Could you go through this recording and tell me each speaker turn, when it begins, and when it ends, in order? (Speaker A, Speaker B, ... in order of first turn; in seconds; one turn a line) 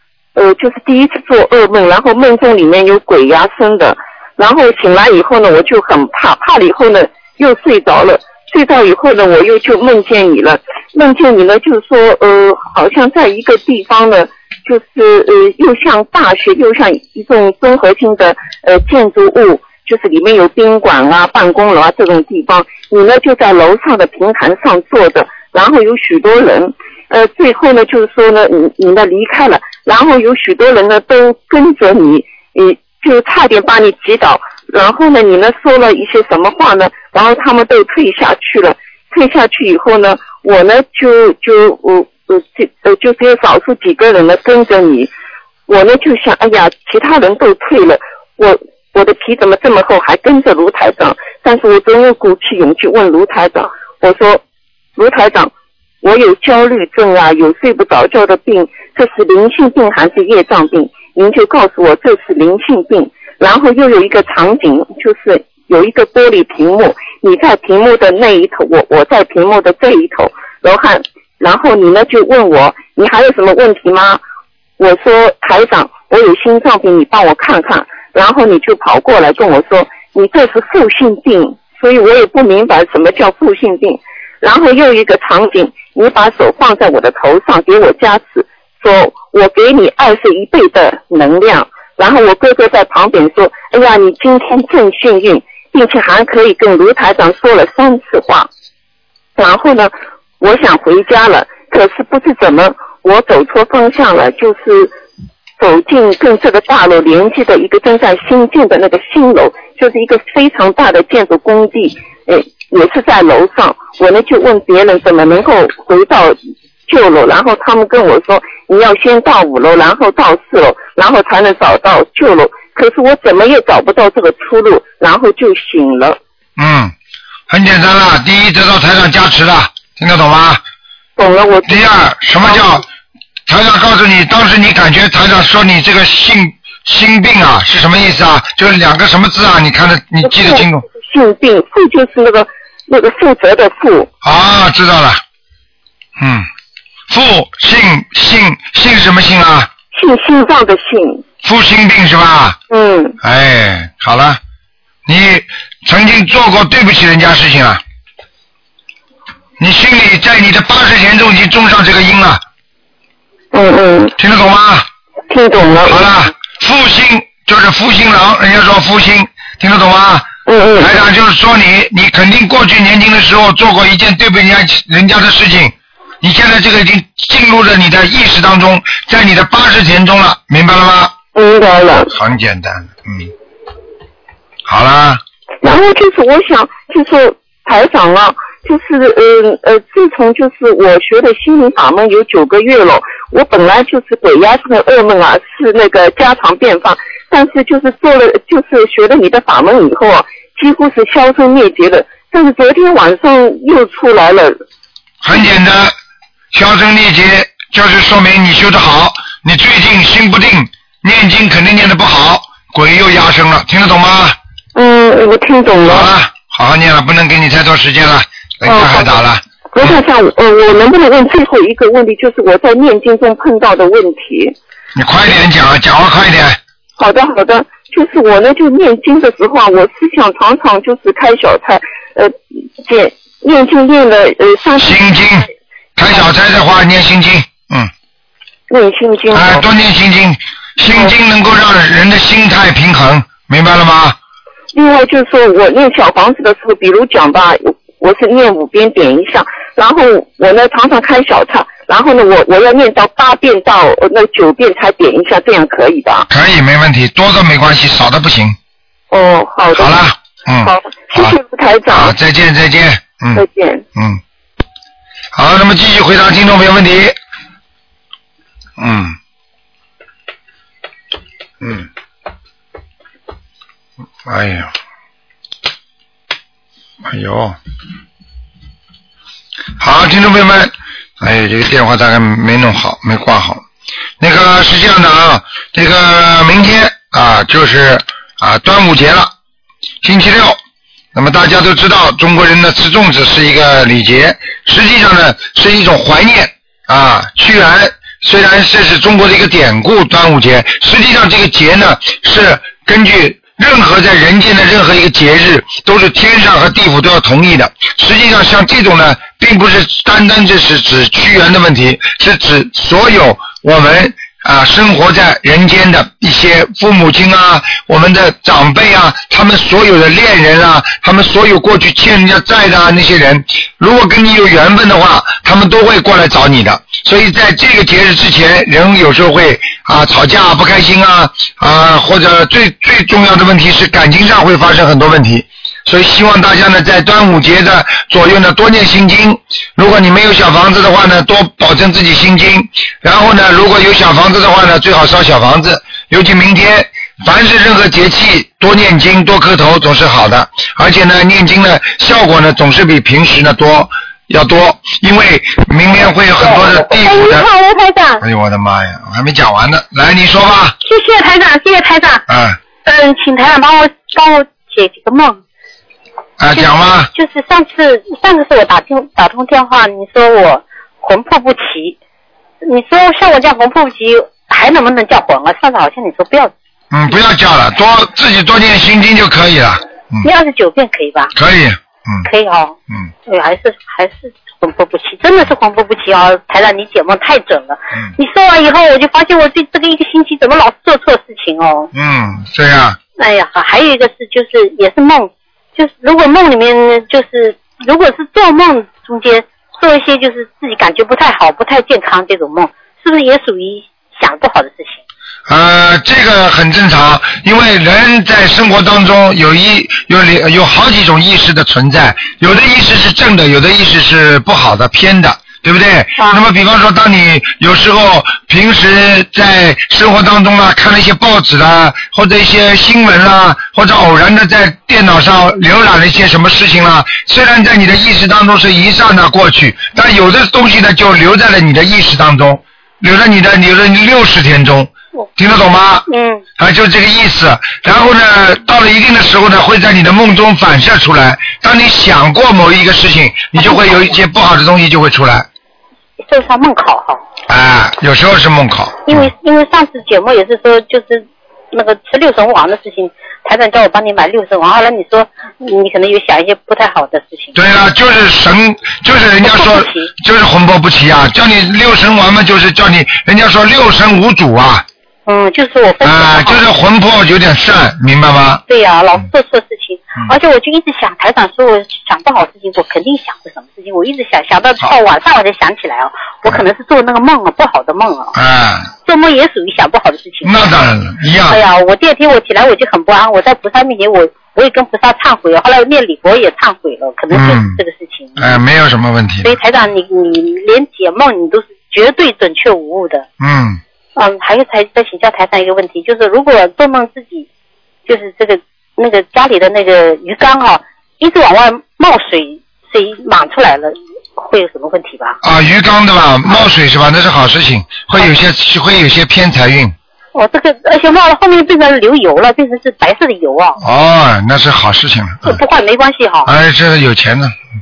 Speaker A: 0.3-45.1
Speaker A: 45.7-54.4
Speaker A: 55.0-74.2
Speaker A: 74.8-98.5
Speaker A: 99.3-104.9
Speaker A: 105.6-126.2
Speaker B: 126.6-126.9
Speaker B: 127.5-130.6
Speaker A: 131.2-132.8
Speaker B: 131.7-132.8
Speaker B: 133.5-140.8
Speaker A: 140.2-144.1
Speaker B: 144.2-145.2
Speaker B: 146.2-146.5
Speaker B: 147.1-149.7
Speaker A: 149.9-151.2
Speaker B: 151.4-152.6
Speaker A: 152.7-153.2
Speaker B: 153.2-154.4
Speaker B: 155.1-157.8
Speaker B: 159.6-162.4
Speaker A: 163.5-164.2
Speaker B: 164.2-164.9
Speaker A: 165.3-166.1
Speaker B: 165.9-170.3
Speaker A: 170.4-170.9
Speaker B: 170.8-181.1
Speaker A: 181.3-182.1
Speaker B: 182.1-183.3
Speaker B: 184.7-185.2
Speaker A: 185.6-204.6
Speaker B: 205.2-205.9
Speaker B: 206.5-214.4
Speaker A: 214.7-216.1
Speaker B: 215.9-219.9
Speaker A: 218.6-219.2
Speaker A: 219.7-224.6
Speaker B: 224.9-226.6
Speaker A: 227.0-235.2
Speaker B: 234.8-237.9
Speaker A: 238.7-239.7
Speaker B: 239.3-244.2
Speaker A: 244.7-256.3
Speaker B: 256.3-258.6
Speaker A: 259.1-260.1
Speaker B: 259.8-261.3
Speaker A: 260.6-262.1
Speaker B: 261.9-263.4
Speaker A: 263.3-263.8
Speaker B: 263.9-264.2
Speaker B: 265.3-267.1
Speaker B: 268.8-269.1
Speaker B: 271.6-271.9
Speaker B: 274.2-274.7
Speaker B: 277.0-277.6
Speaker B: 279.8-283.6
Speaker B: 284.2-289.3
Speaker B: 290.0-290.6
Speaker B: 291.1-357.5
Speaker C: 356.4-358.2
Speaker B: 358.2-360.8
Speaker C: 360.8-362.2
Speaker B: 362.3-362.6
Speaker C: 362.8-365.4
Speaker B: 366.4-367.1
Speaker C: 366.5-372.0
Speaker C: 372.6-376.5
Speaker B: 376.9-380.3
Speaker C: 380.2-381.3
Speaker B: 381.3-382.3
Speaker C: 382.2-391.9
Speaker B: 391.9-393.0
Speaker C: 393.2-405.0
Speaker B: 405.5-436.1
Speaker C: 436.1-436.4
Speaker B: 436.6-445.5
Speaker C: 443.6-444.1
Speaker C: 446.2-447.2
Speaker B: 447.5-449.3
Speaker C: 449.1-457.5
Speaker B: 457.5-464.9
Speaker C: 459.4-460.1
Speaker C: 465.2-466.6
Speaker B: 466.0-468.6
Speaker C: 468.7-478.3
Speaker B: 478.3-478.9
Speaker C: 479.0-480.7
Speaker B: 480.4-481.6
Speaker C: 481.5-488.6
Speaker B: 487.3-487.8
Speaker B: 488.4-489.6
Speaker C: 489.4-493.2
Speaker B: 493.4-493.8
Speaker C: 494.1-497.5
Speaker C: 498.1-505.4
Speaker B: 505.4-509.9
Speaker C: 510.3-513.8
Speaker B: 513.8-515.6
Speaker C: 515.4-516.5
Speaker B: 516.5-517.5